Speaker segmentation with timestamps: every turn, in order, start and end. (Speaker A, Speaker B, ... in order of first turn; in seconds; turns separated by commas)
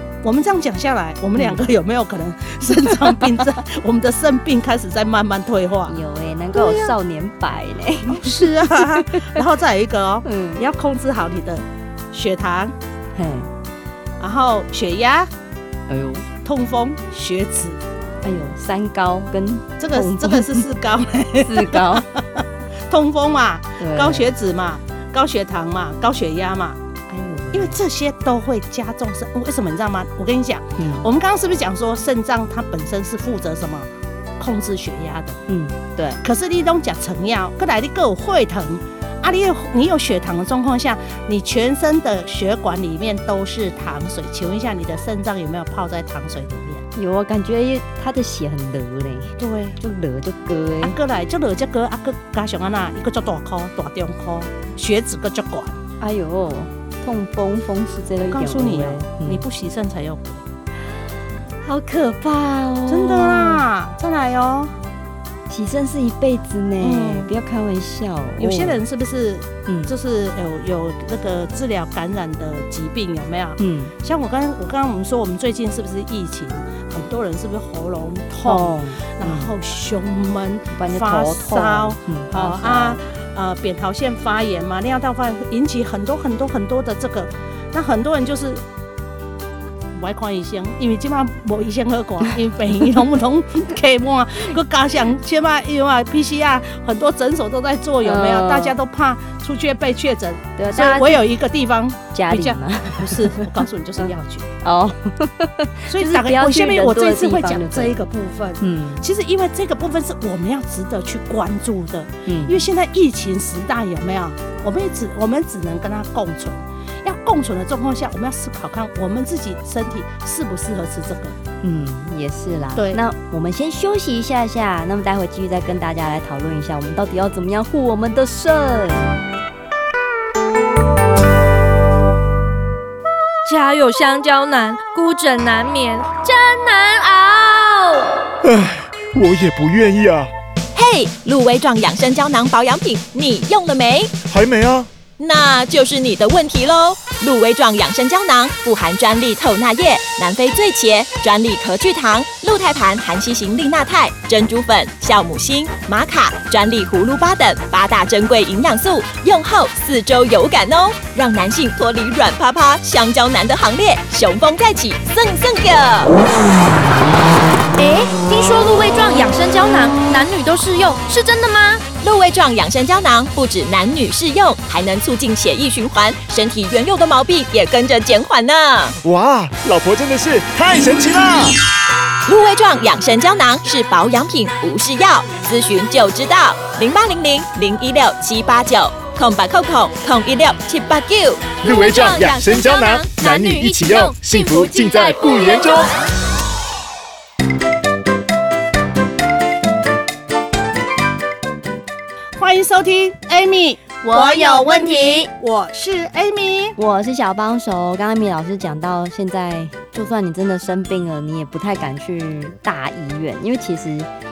Speaker A: 0.2-6.0, Speaker B: 1.4-1.6, Speaker B: 5.8-9.3, Speaker A: 6.5-6.9, Speaker A: 8.1-12.8, Speaker B: 10.2-10.6, Speaker B: 13.1-13.5, Speaker A: 14.2-15.3, Speaker B: 15.9-16.2, Speaker A: 16.4-17.8, Speaker B: 18.2-20.6, Speaker A: 19.8-26.8, Speaker B: 21.4-22.1, Speaker B: 23.8-24.3, Speaker B: 27.1-27.8, Speaker A: 27.5-35.4, Speaker B: 30.8-31.1, Speaker B: 35.5-36.2, Speaker A: 36.2-46.8, Speaker B: 46.9-51.0, Speaker A: 49.4-49.8, Speaker A: 50.8-55.8, Speaker B: 56.0-59.4, Speaker A: 58.2-60.4, Speaker B: 61.6-63.6, Speaker A: 62.9-64.7, Speaker B: 65.5-68.8, Speaker A: 66.8-67.3, Speaker A: 68.4-88.6, Speaker B: 69.7-69.9, Speaker B: 73.6-73.9, Speaker B: 78.4-79.5, Speaker B: 80.7-83.0, Speaker A: 89.9-104.5, Speaker B: 98.0-98.8, Speaker B: 100.6-101.2, Speaker B: 102.1-108.0, Speaker A: 105.9-121.3, Speaker B: 108.6-109.0, Speaker B: 112.2-112.7, Speaker B: 121.6-129.2, Speaker A: 122.7-123.0, Speaker C: 133.4-138.2, Speaker D: 138.4-140.3, Speaker E: 140.7-144.1, Speaker D: 144.3-144.9, Speaker E: 145.2-166.1, Speaker C: 167.8-171.8, Speaker E: 172.0-178.9, Speaker D: 179.0-181.5, Speaker E: 182.3-193.2, Speaker D: 191.6-195.9, Speaker C: 193.1-195.8, Speaker A: 202.4-206.8, Speaker B: 204.5-204.9, Speaker B: 206.8-214.1